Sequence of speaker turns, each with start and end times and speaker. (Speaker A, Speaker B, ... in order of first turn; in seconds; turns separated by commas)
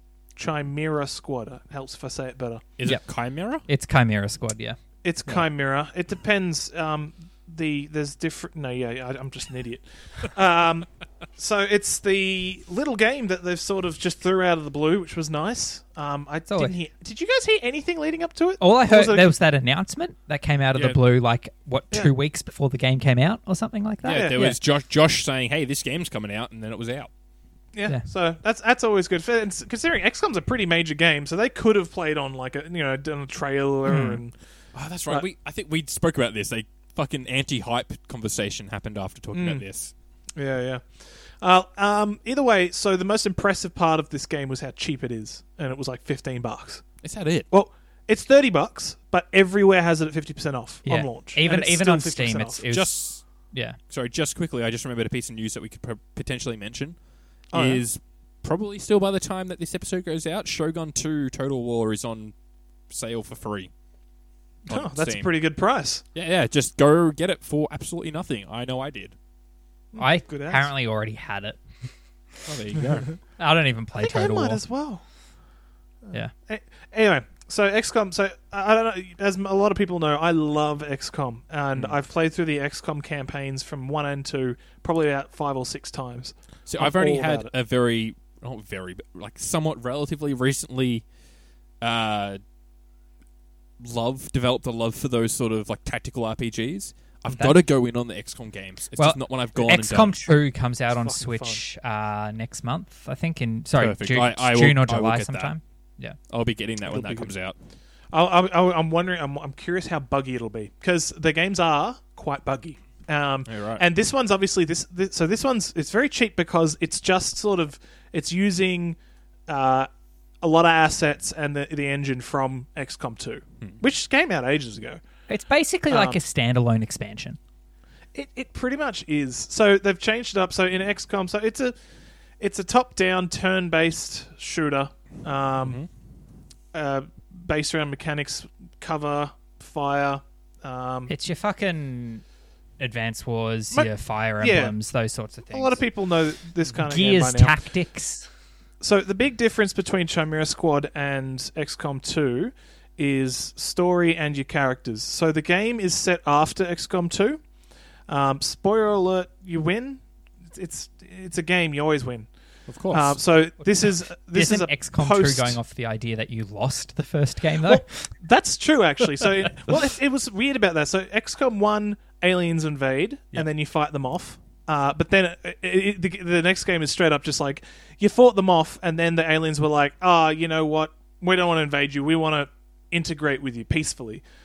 Speaker A: 0.4-2.6, Speaker B: 2.8-3.6, Speaker C: 3.6-4.8, Speaker A: 5.0-19.4, Speaker C: 16.5-16.8, Speaker C: 18.6-24.6, Speaker B: 20.8-21.0, Speaker B: 24.1-27.1, Speaker A: 24.1-24.4, Speaker A: 27.7-34.4, Speaker C: 33.9-34.2, Speaker B: 34.7-39.9, Speaker A: 39.3-39.6, Speaker A: 40.4-46.9, Speaker B: 47.0-47.5, Speaker A: 47.5-52.6, Speaker C: 50.9-53.8, Speaker B: 52.7-53.3, Speaker B: 53.9-57.0, Speaker A: 57.5-57.8, Speaker B: 57.5-62.4, Speaker B: 62.9-63.7, Speaker B: 64.7-65.3, Speaker A: 64.7-66.0, Speaker B: 66.2-69.2, Speaker A: 69.9-70.7, Speaker C: 70.0-71.6, Speaker B: 72.5-73.1, Speaker C: 73.4-74.6, Speaker A: 74.0-75.0, Speaker A: 76.0-87.5, Speaker B: 86.7-91.1, Speaker B: 91.8-92.4, Speaker B: 93.8-100.2, Speaker C: 99.0-106.2, Speaker A: 100.9-101.6, Speaker B: 103.8-105.5, Speaker B: 106.3-107.6, Speaker A: 106.9-107.3, Speaker A: 108.1-119.0, Speaker B: 113.5-113.8, Speaker A: 119.5-119.9, Speaker A: 120.4-125.0, Speaker C: 125.3-127.4, Speaker A: 125.9-126.2, Speaker A: 128.2-131.7, Speaker A: 132.4-135.8, Speaker B: 135.6-135.9, Speaker A: 136.7-141.1, Speaker C: 141.1-142.2, Speaker C: 142.8-145.8, Speaker A: 143.7-144.7, Speaker A: 145.5-147.6, Speaker C: 146.9-148.3, Speaker A: 148.8-157.4, Speaker A: 158.1-160.0, Speaker A: 160.5-162.3, Speaker B: 162.7-163.2, Speaker A: 162.9-165.6, Speaker C: 164.3-168.1, Speaker A: 167.6-184.2